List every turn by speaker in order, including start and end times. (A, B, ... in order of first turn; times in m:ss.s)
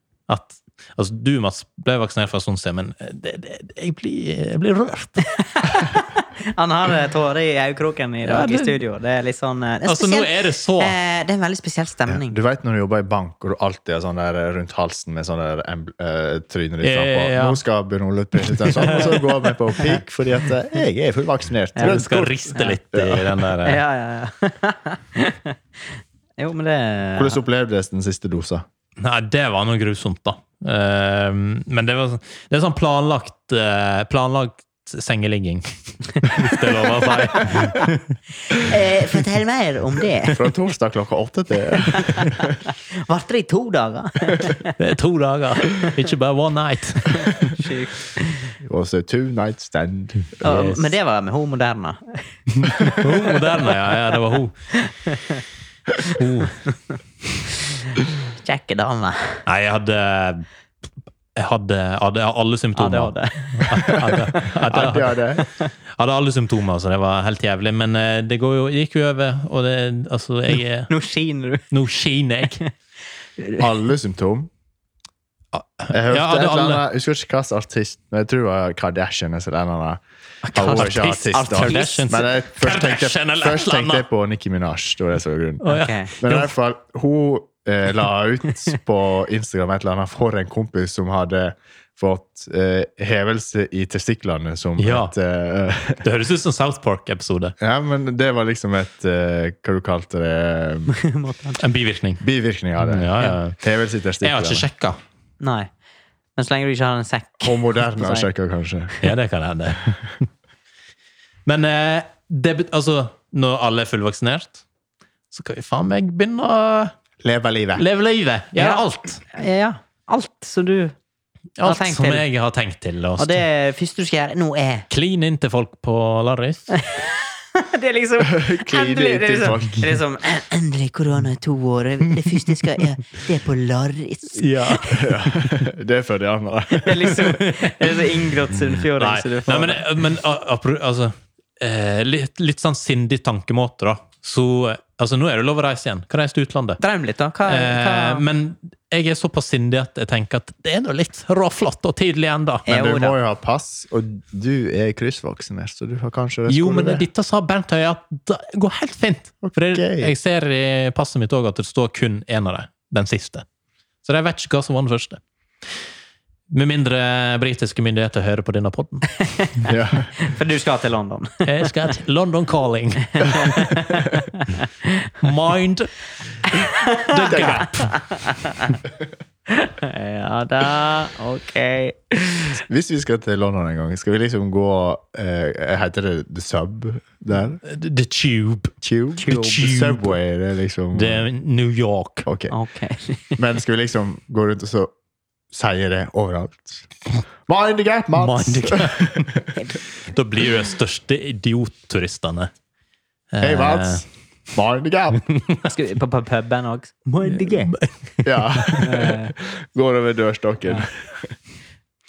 0:00.3-0:05.2 A
0:05.2-0:12.4 B
0:08.2-0:08.8 A
0:09.8-0:11.0 A
0:12.1-0:23.4 C
0:16.8-0:17.6 A
0:18.5-0:19.4 A
0:21.8-0:22.8 B
0:21.8-0:23.8 A
0:23.6-0:25.6 B
0:26.4-0:27.4 B
0:27.2-0:28.6 C
0:29.0-0:38.7 A
0:36.6-0:37.9 B
0:38.5-0:40.4 B
0:40.3-0:42.6 C
0:41.9-0:44.7 B
0:44.8-0:47.6 A
0:47.2-0:48.5 B
0:48.6-0:50.3 C
0:50.3-0:50.9 A
0:50.4-0:53.7 B
0:52.6-0:54.6 A
0:54.7-0:55.4 B
0:56.0-0:56.7 A
0:57.7-0:59.4 B
0:59.5-1:00.5 A
1:01.4-1:05.2 A
1:02.8-1:04.0 B
1:04.7-1:05.5 C
1:05.4-1:05.7 B
1:06.0-1:10.9 A
1:10.9-1:11.7 B
1:11.7-1:12.6 A
1:13.4-1:13.6 B
1:13.6-1:14.5 C
1:15.5-1:16.8 A
1:15.9-1:20.0 C
1:20.4-1:22.2 B
1:20.5-1:25.6 C
1:20.6-1:24.0 A
1:25.6-1:26.5 A
1:25.7-1:26.1 B
1:26.2-1:36.0 C
1:34.8-1:35.1 A
1:36.0-1:37.6 A
1:37.6-1:40.9 C
1:40.9-1:41.6 B
1:41.6-1:42.2 A
1:42.2-1:44.7 C
1:42.8-1:43.6 A
1:44.2-1:45.0 A
1:45.4-1:45.7 B
1:46.4-1:48.3 B
1:47.4-1:48.9 C
1:49.0-1:50.2 A
1:51.5-1:54.6 A
1:55.3-1:56.9 A
1:57.2-1:57.9 C
1:57.8-1:59.2 A
1:58.6-2:01.0 B
2:01.6-2:03.4 A
2:01.6-2:02.3 B
2:03.2-2:04.9 B
2:04.9-2:06.7 A
2:06.7-2:15.1 B
2:08.2-2:10.0 C
2:12.2-2:12.8 A
2:14.4-2:15.1 A
2:14.9-2:17.3 C
2:16.7-2:19.8 B
2:17.3-2:17.9 A
2:19.0-2:26.8 A
2:26.8-2:28.2 B
2:27.5-2:32.7 A
2:32.7-2:33.2 B
2:32.7-2:37.0 C
2:36.5-2:43.4 A
2:39.4-2:40.1 C
2:44.0-2:45.2 A
2:46.5-2:49.2 A
2:49.4-2:51.7 B
2:49.6-2:50.1 C
2:51.4-2:53.8 A
2:53.2-2:55.1 B
2:55.2-2:56.0 A
2:56.5-2:58.8 B
2:57.0-2:58.0 A
2:57.3-2:57.7 C
2:59.5-3:02.6 B
3:02.6-3:07.6 C
3:07.6-3:10.2 A
3:08.8-3:11.3 C
3:10.9-3:12.3 A
3:12.2-3:12.5 C
3:12.5-3:13.4 B
3:13.4-3:14.9 C
3:15.5-3:16.9 C
3:17.5-3:19.5 C
3:18.2-3:19.5 A
3:20.0-3:22.5 A
3:23.3-3:24.0 A
3:23.4-3:25.3 C
3:25.3-3:25.6 A
3:25.6-3:27.8 B
3:27.3-3:28.9 A
3:28.2-3:31.3 C
3:28.8-3:29.4 B